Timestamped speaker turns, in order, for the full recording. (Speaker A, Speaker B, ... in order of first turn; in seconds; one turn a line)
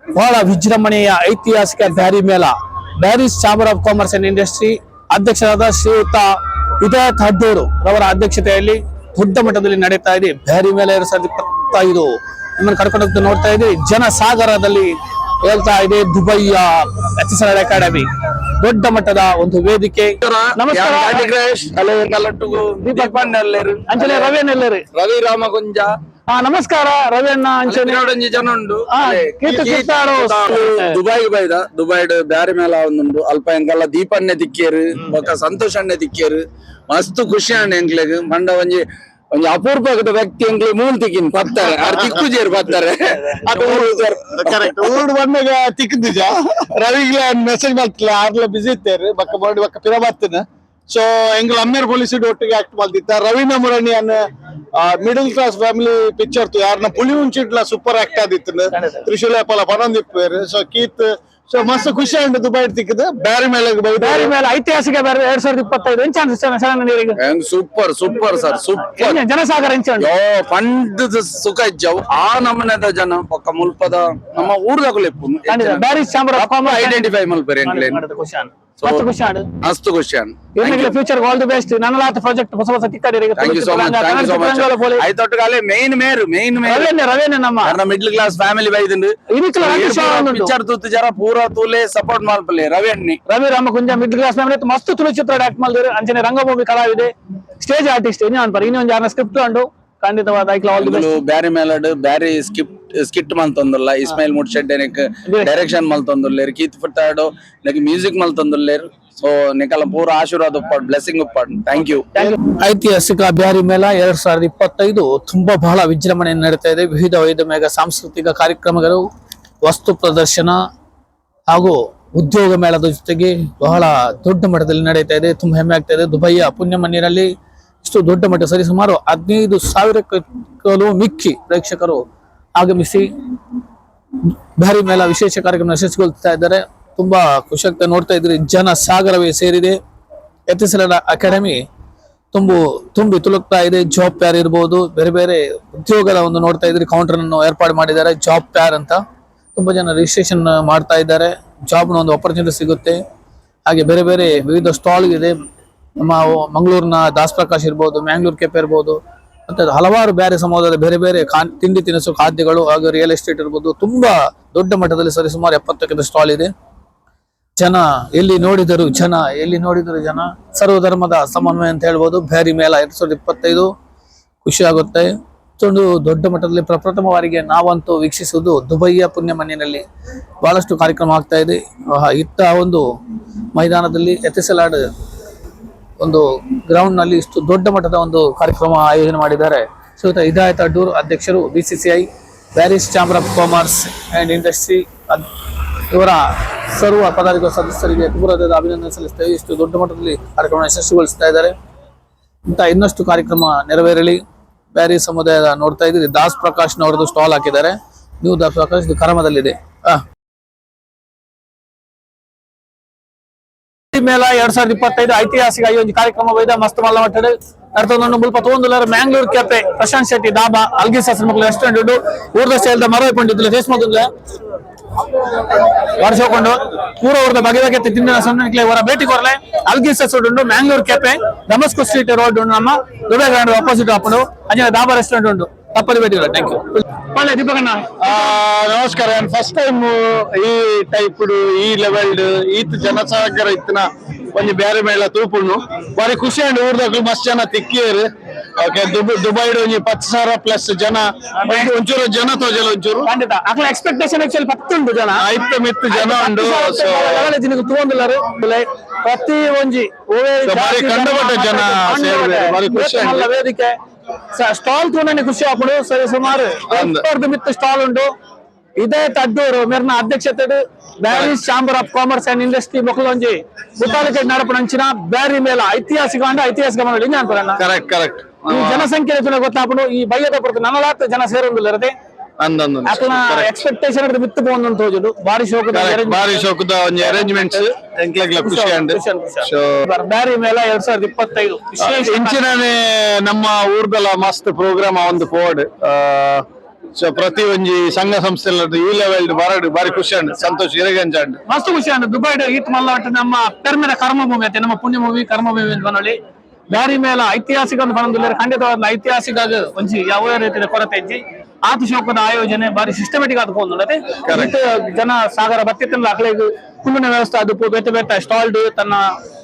Speaker A: 0.1-21.3
Speaker B: 20.2-24.4
Speaker A: 22.8-23.3
Speaker A: 23.9-24.8
Speaker B: 24.9-25.9
Speaker A: 26.3-28.0
Speaker B: 27.7-44.9
Speaker A: 28.9-31.0
Speaker C: 41.9-42.2
Speaker C: 43.5-54.2
Speaker C: 54.8-64.3
Speaker A: 58.7-59.1
Speaker A: 64.0-67.2
Speaker B: 67.2-69.2
Speaker A: 69.0-70.1
Speaker B: 70.0-78.0
Speaker A: 75.5-77.1
Speaker A: 77.6-79.5
Speaker B: 79.6-81.0
Speaker A: 80.5-85.1
Speaker B: 83.4-86.9
Speaker A: 86.6-87.8
Speaker B: 87.6-93.2
Speaker A: 89.3-90.5
Speaker A: 93.3-101.1
Speaker B: 100.8-112.1
Speaker A: 105.3-105.6
Speaker A: 112.2-119.1
Speaker A: 119.6-120.6
Speaker A: 121.5-132.1
Speaker A: 132.6-133.1
Speaker A: 134.6-139.8
Speaker A: 140.5-141.7
Speaker A: 142.3-149.0
Speaker A: 149.6-153.0
Speaker A: 153.7-155.4
Speaker A: 156.0-166.5
Speaker A: 167.6-173.7
Speaker A: 174.4-179.8
Speaker A: 180.4-182.9
Speaker A: 183.5-184.9
Speaker A: 186.0-195.3
Speaker A: 195.9-201.6
Speaker A: 202.5-204.2
Speaker A: 204.7-210.0
Speaker A: 213.9-224.1
Speaker A: 225.8-237.9
Speaker C: 238.0-253.1
Speaker A: 251.4-251.7
Speaker A: 253.0-255.3
Speaker C: 255.2-257.4
Speaker A: 255.9-263.8
Speaker C: 260.4-263.3
Speaker A: 264.3-268.1
Speaker C: 266.7-267.1
Speaker A: 268.8-277.6
Speaker C: 271.1-271.4
Speaker C: 277.6-278.9
Speaker A: 278.5-281.9
Speaker C: 282.4-283.5
Speaker A: 282.9-286.4
Speaker C: 285.7-289.8
Speaker A: 287.0-287.7
Speaker A: 288.4-292.4
Speaker C: 291.8-296.4
Speaker C: 297.0-301.4
Speaker A: 301.5-319.1
Speaker C: 314.2-314.6